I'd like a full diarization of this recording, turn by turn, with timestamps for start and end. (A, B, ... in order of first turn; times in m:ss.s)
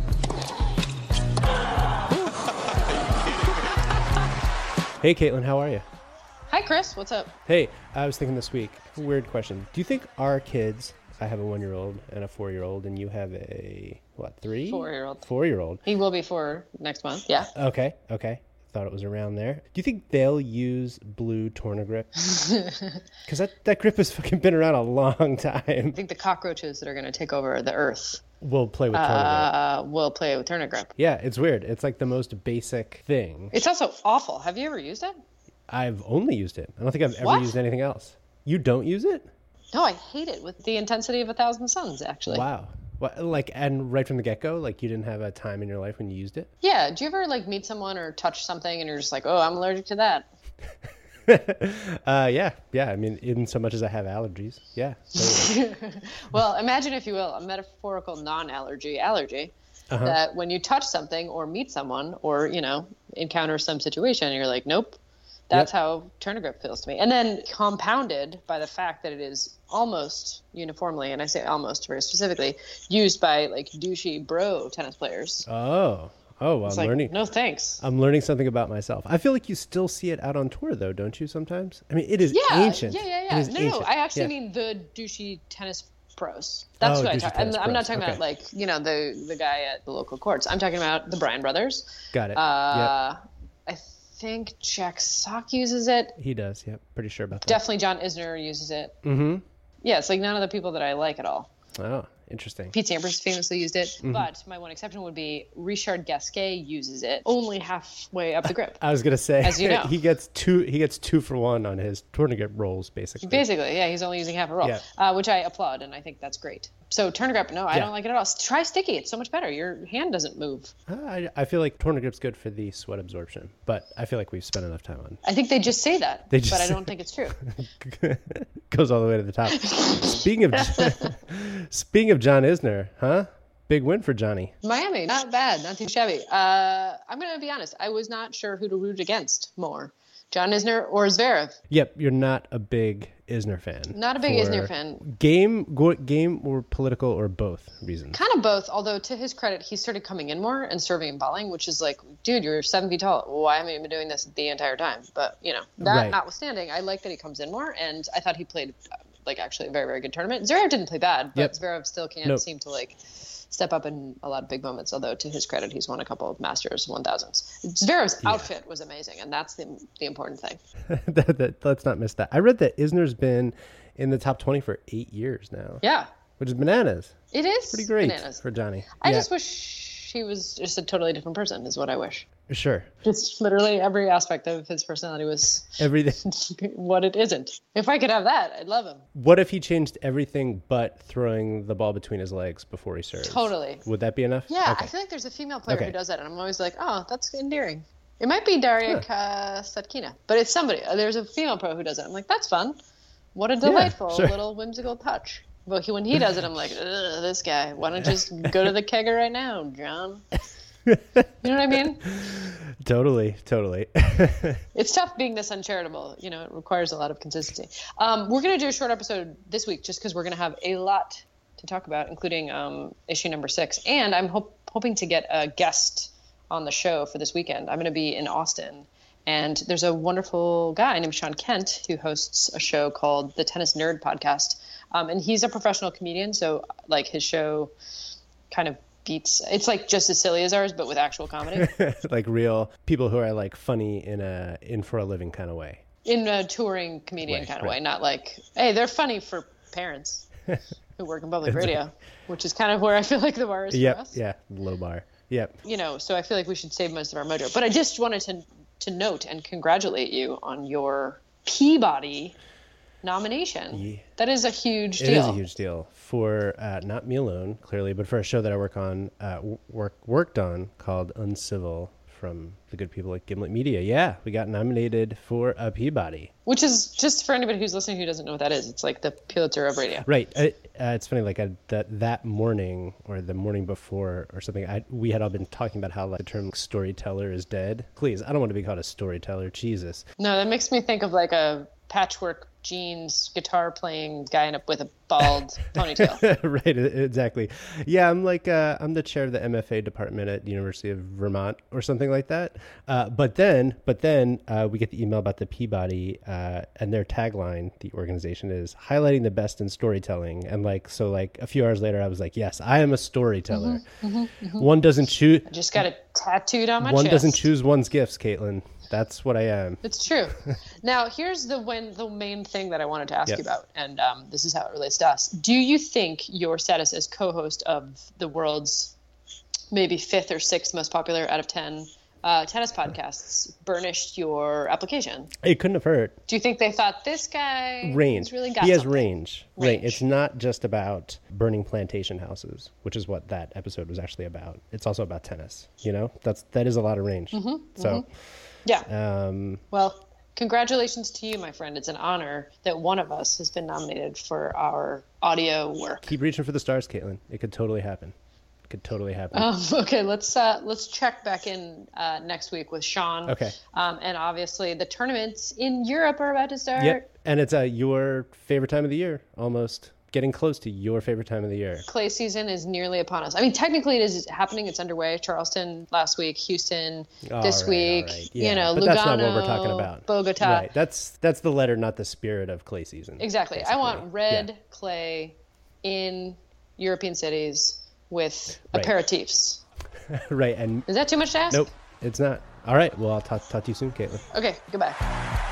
0:05.0-0:05.8 A
0:06.5-0:07.3 B
0:07.5-0:15.8 A
0:14.7-0:15.3 B
0:15.8-0:17.5 B
0:17.6-0:22.1 A
0:22.3-0:22.9 B
0:23.3-0:26.0 A
0:25.9-0:28.2 B
0:28.4-0:29.5 A
0:28.9-0:30.9 B
0:31.0-0:33.5 A
0:33.5-0:35.2 B
0:35.7-0:39.3 A
0:37.2-0:37.6 B
0:39.7-0:42.5 B
0:42.3-0:46.5 A
0:46.6-0:50.3 B
0:51.3-0:55.6 A
0:55.2-1:05.0 B
0:59.9-1:00.2 A
1:05.5-1:15.5 B
1:15.5-1:17.2 A
1:16.6-1:17.8 B
1:17.8-1:24.3 A
1:22.3-1:36.2 B
1:26.8-1:28.2 A
1:32.1-1:33.0 A
1:36.2-1:37.6 A
1:37.4-1:39.0 B
1:39.0-1:39.4 A
1:39.8-1:41.5 B
1:41.8-1:42.8 A
1:42.7-1:48.8 B
1:44.0-1:44.3 A
1:48.4-1:53.4 A
1:49.4-1:50.0 B
1:53.2-2:00.7 B
2:00.9-2:05.2 A
2:05.2-2:07.4 B
2:06.3-2:14.5 A
2:09.5-2:11.1 B
2:14.6-2:21.6 B
2:21.7-2:28.2 A
2:23.9-2:25.0 B
2:28.1-2:50.6 B
2:35.8-2:36.2 A
2:48.2-2:48.5 A
2:50.9-2:55.8 A
2:55.8-2:56.1 B
2:56.4-2:57.2 A
2:57.3-2:58.4 B
2:57.7-2:59.3 A
2:59.0-3:02.3 B
3:02.5-3:02.9 A
3:03.0-3:09.0 B
3:05.8-3:06.2 A
3:09.2-3:14.9 A
3:13.2-3:13.8 B
3:14.5-3:22.8 B
3:15.7-3:16.0 A
3:23.3-3:30.3 B
3:23.6-3:24.4 A
3:28.0-3:28.5 A
3:30.9-3:31.3 A
3:31.4-3:32.2 B
3:32.1-3:34.6 A
3:34.7-3:57.7 B
3:58.5-4:01.7 B
4:01.5-4:05.8 A
4:06.0-4:10.3 B
4:07.2-4:07.8 A
4:11.0-4:14.2 B
4:11.4-4:11.8 A
4:13.7-4:15.6 A
4:15.6-4:22.4 B
4:23.0-4:25.4 B
4:23.7-4:24.0 A
4:25.0-4:36.3 A
4:36.5-4:40.1 B
4:40.1-4:50.0 A
4:50.2-4:56.2 B
4:56.0-5:13.8 A
5:13.5-5:14.7 B
5:14.5-5:15.8 A
5:15.5-5:17.5 B
5:16.8-5:19.8 A
5:19.8-5:29.0 B
5:29.7-5:35.3 B
5:35.4-5:36.2 A
5:36.3-5:40.0 B
5:37.8-5:48.0 A
5:47.3-5:48.1 B
5:48.8-5:49.6 A
5:49.7-5:56.1 B
5:56.0-5:58.2 A
5:58.7-5:59.5 A
5:59.3-6:07.1 B
6:03.3-6:03.6 A
6:06.8-6:11.9 A
6:11.9-6:20.7 B
6:17.2-6:24.5 A
6:23.2-6:29.6 B
6:30.1-6:30.9 A
6:30.9-6:31.7 B
6:31.5-6:34.3 A
6:34.3-6:35.0 B